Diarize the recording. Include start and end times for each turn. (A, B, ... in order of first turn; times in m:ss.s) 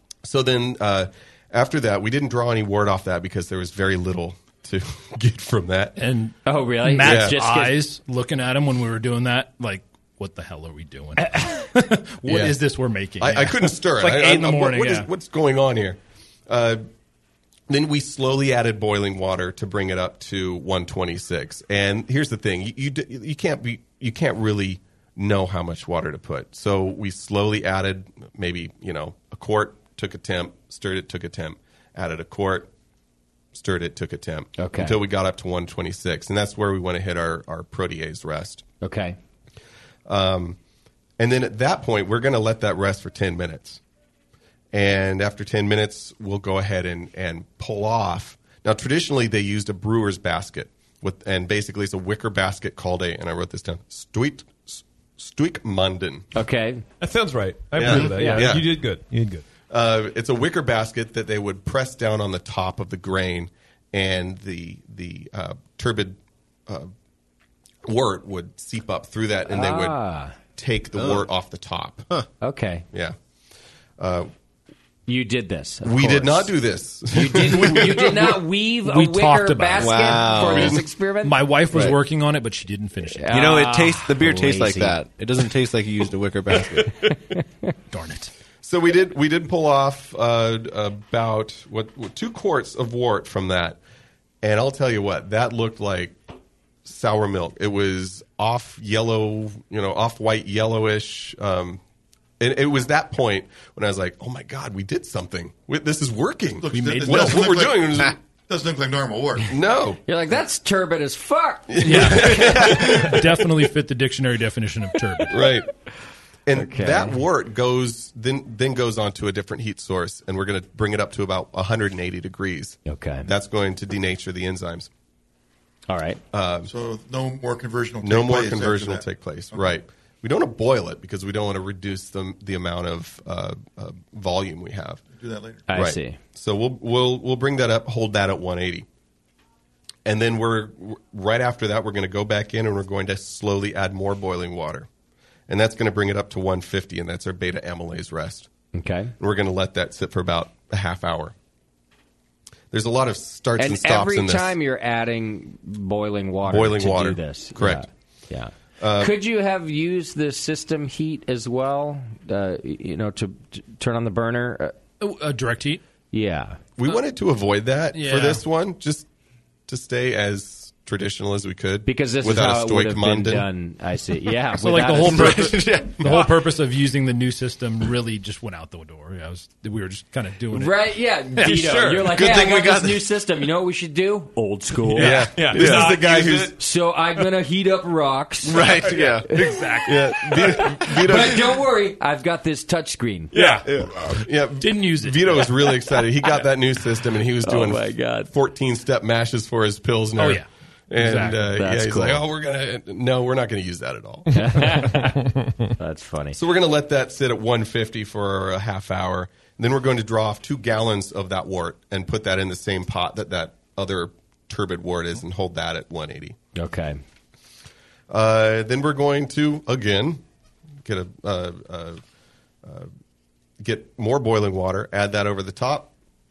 0:00.2-0:06.0 A
0:06.0-0:15.1 B
0:06.4-0:07.8 C
0:07.0-0:07.4 A
0:12.2-0:12.6 A
0:13.2-0:16.8 A
0:17.7-0:32.7 A
0:33.5-0:38.6 A
0:34.6-0:35.0 C
0:38.8-0:39.2 C
0:40.1-0:40.6 A
0:41.2-0:43.8 A
0:44.7-0:56.3 A
0:56.3-0:56.8 C
0:57.0-0:59.4 D
0:57.7-0:58.8 A
0:57.8-0:58.1 E
0:59.7-1:06.9 A
1:07.9-1:12.1 A
1:09.5-1:10.4 C
1:11.0-1:11.3 E
1:12.4-1:12.9 C
1:14.0-1:14.3 A
1:15.1-1:16.6 C
1:15.8-1:18.3 A
1:17.1-1:21.4 C
1:18.8-1:20.6 B
1:19.8-1:20.8 E
1:20.5-1:20.8 A
1:21.2-1:23.3 B
1:21.7-1:22.0 E
1:23.2-1:25.0 C
1:23.3-1:26.9 E
1:27.9-1:28.3 B
1:28.6-1:33.8 A
1:34.4-1:36.2 A
1:36.8-1:41.8 A
1:42.4-1:48.2 A
1:46.6-1:48.0 F
1:46.8-1:47.1 B
1:48.5-1:49.5 F
1:49.5-1:50.0 A
1:50.1-1:52.7 C
1:51.7-1:53.2 A
1:51.9-1:55.4 B
1:55.3-1:55.7 A
1:56.5-2:04.9 A
1:56.5-1:57.2 C
2:02.8-2:03.3 C
2:05.9-2:06.2 C
2:06.3-2:06.7 A
2:06.7-2:09.7 F
2:08.0-2:15.0 A
2:15.1-2:15.7 F
2:15.7-2:16.2 C
2:15.7-2:18.9 A
2:20.1-2:24.9 A
2:25.5-2:28.5 A
2:28.8-2:29.1 C
2:29.2-2:31.3 A
2:32.7-2:34.6 A
2:33.6-2:44.8 C
2:36.4-2:37.9 A
2:38.8-2:39.2 A
2:45.0-2:45.8 B
2:46.1-2:46.6 C
2:46.8-2:49.1 A
2:47.9-2:48.4 B
2:49.7-2:53.5 A
2:51.8-2:55.5 C
2:54.6-3:01.9 B
2:55.1-2:56.2 E
3:00.5-3:06.0 C
3:01.4-3:02.2 D
3:02.1-3:03.0 E
3:05.0-3:05.2 B
3:05.0-3:06.6 A
3:05.1-3:06.5 D
3:06.5-3:09.6 C
3:08.5-3:09.7 E
3:08.6-3:09.2 A
3:09.5-3:09.9 B
3:09.8-3:11.5 A
3:10.3-3:10.7 E
3:11.0-3:13.3 C
3:13.3-3:13.6 D
3:13.3-3:13.6 B
3:13.6-3:13.9 E
3:14.2-3:24.3 A
3:14.6-3:15.4 B
3:17.4-3:18.3 C
3:20.2-3:20.5 B
3:21.0-3:21.4 B
3:21.2-3:22.2 C
3:24.3-3:25.2 C
3:24.5-3:25.7 D
3:25.8-3:26.4 C
3:26.3-3:36.4 A
3:36.6-3:37.0 C
3:38.1-3:40.2 A
3:40.8-3:42.0 A
3:42.6-3:42.9 A
3:43.6-3:45.9 A